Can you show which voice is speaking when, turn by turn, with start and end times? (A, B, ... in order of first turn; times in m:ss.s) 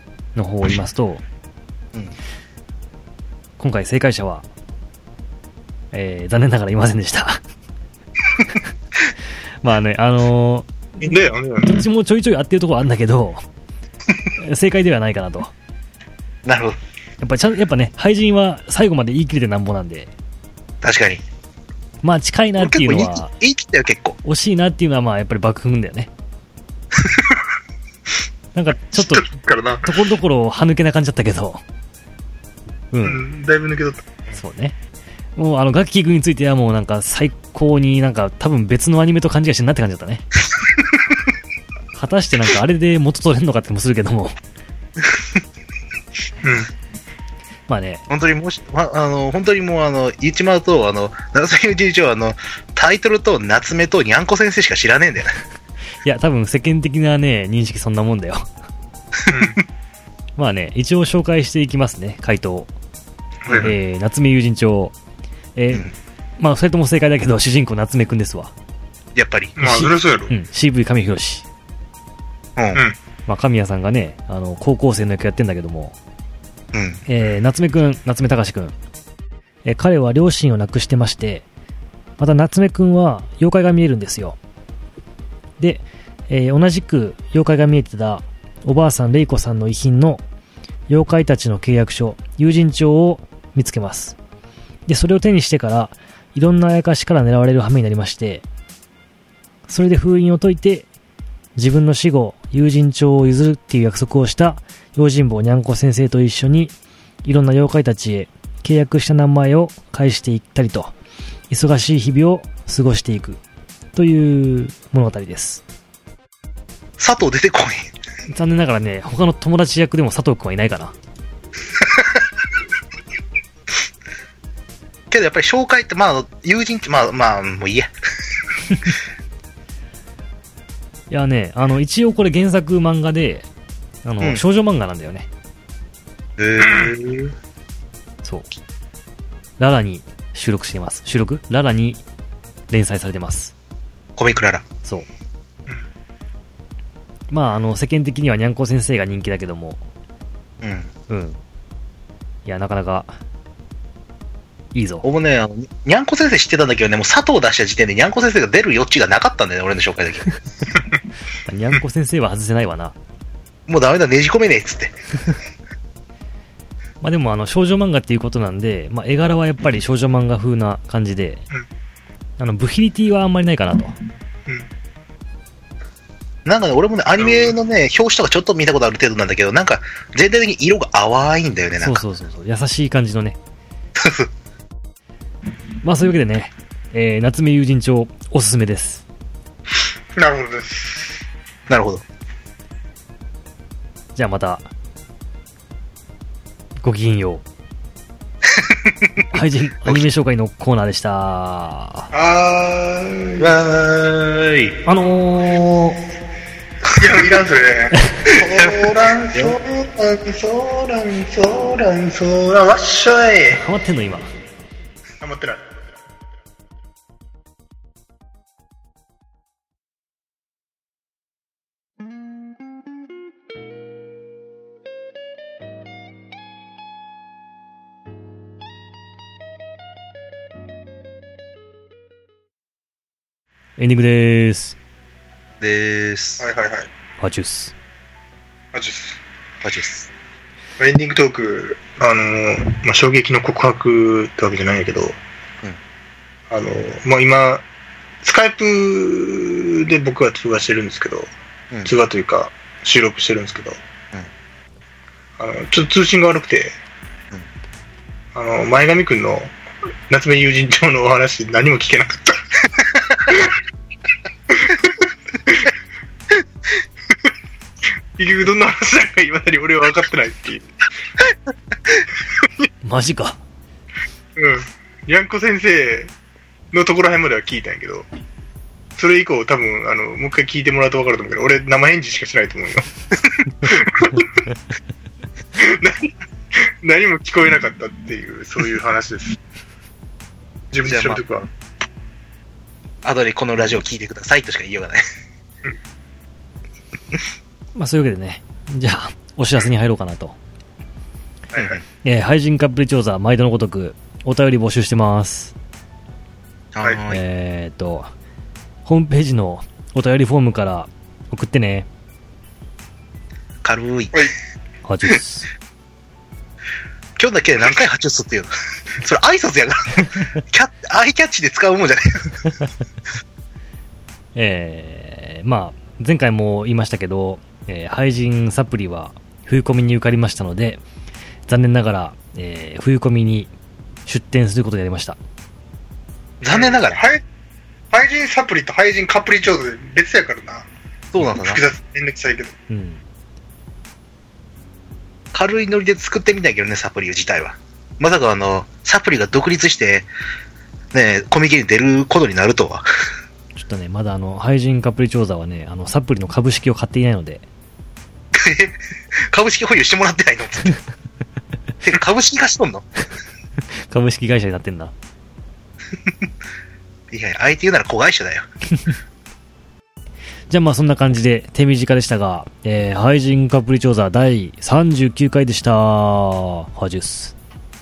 0:00.4-0:01.2 A
0:03.6-0:04.4 A
0:05.9-0:07.4 A
0:09.6-0:11.1 A
0:11.0-0:11.8 B
0:11.6-0:13.4 A
0:14.4-0:15.5 A
0:16.5-0:16.8 C
0:17.2-0:20.1 A
0:20.8-0:21.2 C
0:22.0-0:23.3 A
0:22.6-0:24.2 C
0:24.2-0:26.1 A
0:28.6-0:29.3 A
0:29.0-0:29.9 B
0:29.8-0:31.6 A
0:32.9-0:33.2 A
0:33.0-0:34.4 B
0:34.4-0:34.8 A
0:35.4-0:40.3 A
0:41.9-0:44.4 A
0:46.4-0:46.7 B
0:47.7-0:48.0 A
0:48.1-0:55.4 C
0:56.0-0:58.5 A
0:59.3-0:59.6 B
1:00.4-1:02.7 A
1:03.4-1:03.7 B
1:03.5-1:03.7 C
1:03.6-1:05.0 A
1:05.6-1:08.5 A
1:09.2-1:09.6 C
1:09.6-1:10.3 B
1:09.6-1:11.4 A
1:12.6-1:12.8 C
1:13.3-1:16.0 A
1:16.7-1:17.0 C
1:17.1-1:18.7 A
1:19.6-1:21.4 A
1:22.2-1:24.4 A
1:25.6-1:30.2 A
1:30.9-1:34.2 A
1:34.9-1:38.4 A
1:39.7-1:40.9 A
1:41.6-1:46.7 A
1:47.2-1:50.9 A
1:51.5-1:53.4 A
1:54.0-1:55.6 A
1:57.0-1:57.9 C
1:58.3-2:01.0 A
2:01.8-2:02.2 C
2:05.1-2:07.9 C
2:11.1-2:13.5 A
2:14.0-2:15.3 A
2:16.4-2:17.2 C
2:16.6-2:17.3 B
2:19.6-2:22.0 A
2:22.7-2:23.5 A
2:24.2-2:24.7 C
2:27.3-2:29.8 A
2:30.6-2:30.9 C
2:31.1-2:31.4 A
2:32.5-2:33.2 A
2:34.7-2:35.0 A
2:35.0-2:40.2 C
2:41.4-2:43.0 A
2:43.7-2:45.0 C
2:47.0-2:51.4 A
2:52.4-2:54.0 A
2:56.4-3:02.0 C
2:57.2-2:57.6 B
3:01.8-3:03.4 A
3:04.0-3:04.3 C
3:05.8-3:09.0 A
3:10.2-3:11.2 B
3:11.7-3:12.0 C
3:14.2-3:14.7 A
3:16.8-3:17.4 A
3:18.5-3:19.2 C
3:19.3-3:22.1 A
3:22.1-3:23.5 B
3:23.4-3:24.8 C
3:24.9-3:26.0 A
3:26.9-3:33.6 B
3:28.3-3:29.6 C
3:33.6-3:34.3 A
3:35.2-3:35.9 B
3:53.8-3:54.8 A
3:55.6-3:56.4 C
3:56.4-3:56.9 B
3:57.2-3:57.7 A
3:58.7-3:59.2 B
3:59.6-4:00.1 C
4:00.8-4:05.2 B
4:06.5-4:07.6 B
4:08.2-4:11.3 B
4:11.8-4:13.8 B
4:15.4-4:16.8 B
4:18.4-4:19.5 B
4:20.1-4:22.4 B
4:23.2-4:23.6 B
4:24.5-4:25.7 B
4:28.2-4:30.7 B
4:32.8-4:33.4 A
4:34.4-4:36.1 B
4:36.7-4:38.1 B
4:39.0-4:42.9 B
4:43.4-4:44.5 B
4:45.6-4:49.4 B
4:50.7-4:51.5 B
4:50.8-4:51.2 C
4:53.0-4:55.0 C
4:57.8-5:00.4 A
5:01.5-5:01.8 B
5:01.6-5:01.8 C
5:02.0-5:05.5 A
5:06.7-5:07.2 C
5:07.1-5:08.1 A
5:08.8-5:11.9 A
5:13.6-5:14.2 C
5:14.8-5:15.5 A
5:17.2-5:22.5 C
5:24.4-5:30.8 A
5:31.5-5:33.5 A
5:34.0-5:35.2 A
5:36.4-5:37.0 C
5:36.5-5:37.2 B
5:37.9-5:40.7 B
5:41.1-5:41.6 C
5:41.3-5:42.5 B
5:42.7-5:43.0 A
5:45.3-5:50.1 C
5:50.9-5:52.9 C
5:53.6-5:57.4 A
5:58.3-6:00.8 C
6:01.8-6:02.9 C
6:03.9-6:04.9 A
6:07.1-6:08.5 C
6:10.5-6:17.4 A